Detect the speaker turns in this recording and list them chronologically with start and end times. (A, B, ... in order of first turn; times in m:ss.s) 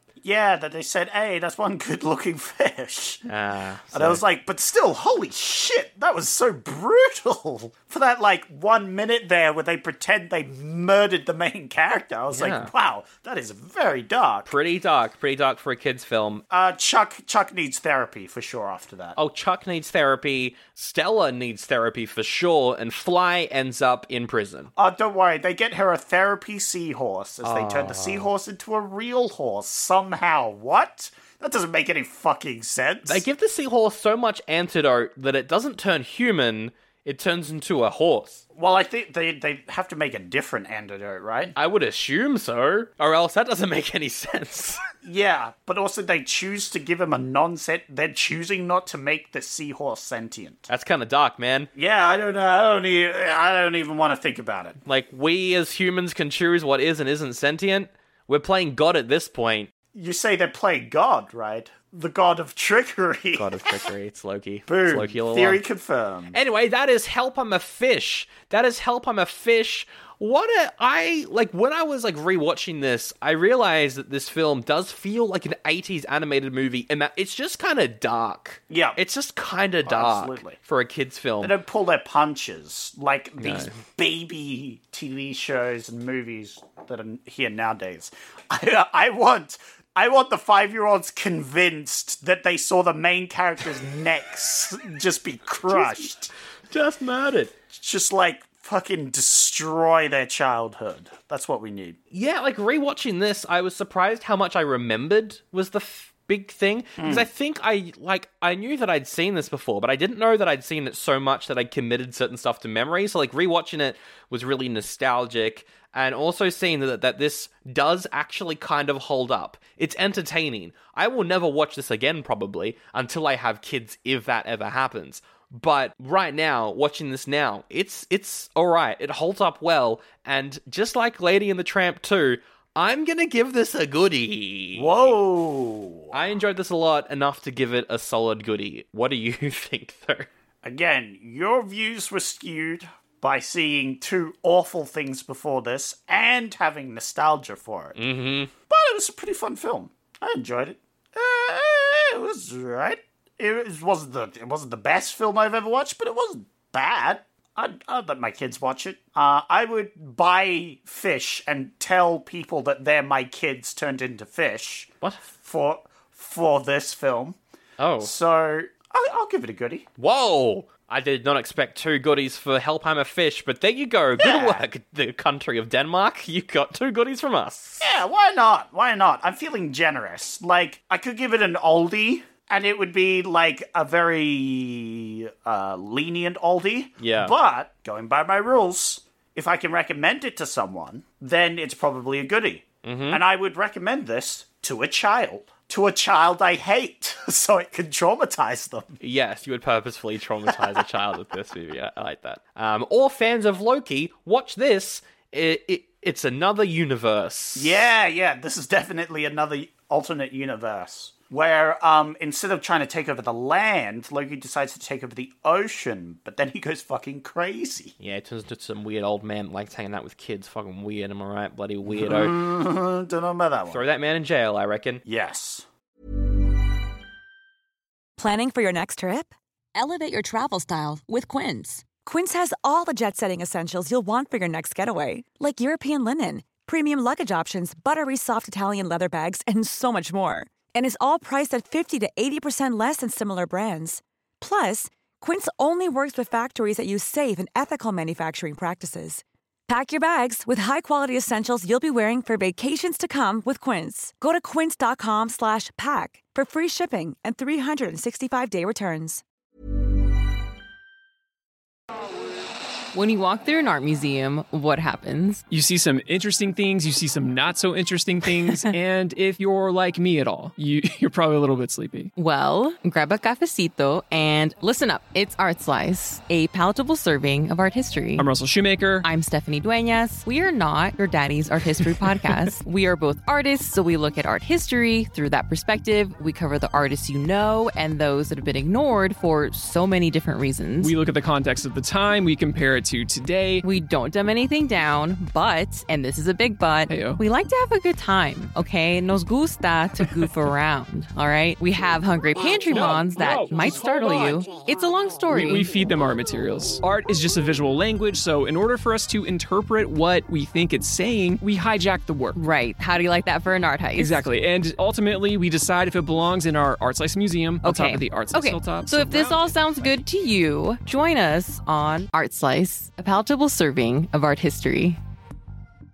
0:00.2-0:03.3 A
0:03.3-0:04.2 B
0:03.9-0:14.5 A
0:12.3-0:12.7 B
0:14.4-0:16.4 B
0:16.5-0:19.2 A
0:19.2-0:24.7 B
0:24.8-0:33.2 A
0:27.4-0:28.3 B
0:33.0-0:38.4 B
0:38.5-0:41.5 A
0:41.6-0:44.8 B
0:45.0-0:50.7 A
0:50.7-0:51.7 B
0:51.7-0:54.8 A
0:54.8-0:59.7 B
0:59.9-1:03.8 A
1:03.3-1:05.6 B
1:04.7-1:06.3 A
1:06.3-1:21.5 B
1:18.7-1:19.0 A
1:19.8-1:20.6 A
1:21.4-1:36.3 A
1:23.4-1:23.7 B
1:35.7-1:36.1 B
1:36.7-1:37.5 B
1:37.7-1:42.0 A
1:42.1-2:15.1 B
1:47.0-1:47.3 A
2:14.8-2:16.1 A
2:16.1-2:20.3 B
2:20.6-2:28.0 A
2:28.0-2:28.5 B
2:28.7-2:47.4 A
2:47.8-2:48.1 B
2:48.0-2:49.8 A
2:50.0-2:57.8 B
2:54.2-2:54.6 A
2:57.8-3:19.0 A
3:07.0-3:07.3 B
3:12.8-3:13.2 B
3:19.0-3:27.8 B
3:27.6-3:37.9 A
3:38.0-3:42.5 B
3:41.8-3:43.8 A
3:43.7-3:45.0 B
3:45.0-3:45.6 A
3:48.2-4:19.2 C
4:22.9-4:25.4 D
4:25.5-4:32.1 E
4:32.2-4:38.3 D
4:38.2-4:39.0 E
4:39.0-4:50.9 D
4:41.8-4:42.5 E
4:50.8-4:53.6 E
4:53.6-5:05.7 D
4:56.9-4:57.2 E
5:02.6-5:04.5 E
5:05.3-5:12.4 E
5:12.3-5:14.2 D
5:14.0-5:20.0 E
5:17.6-5:25.0 D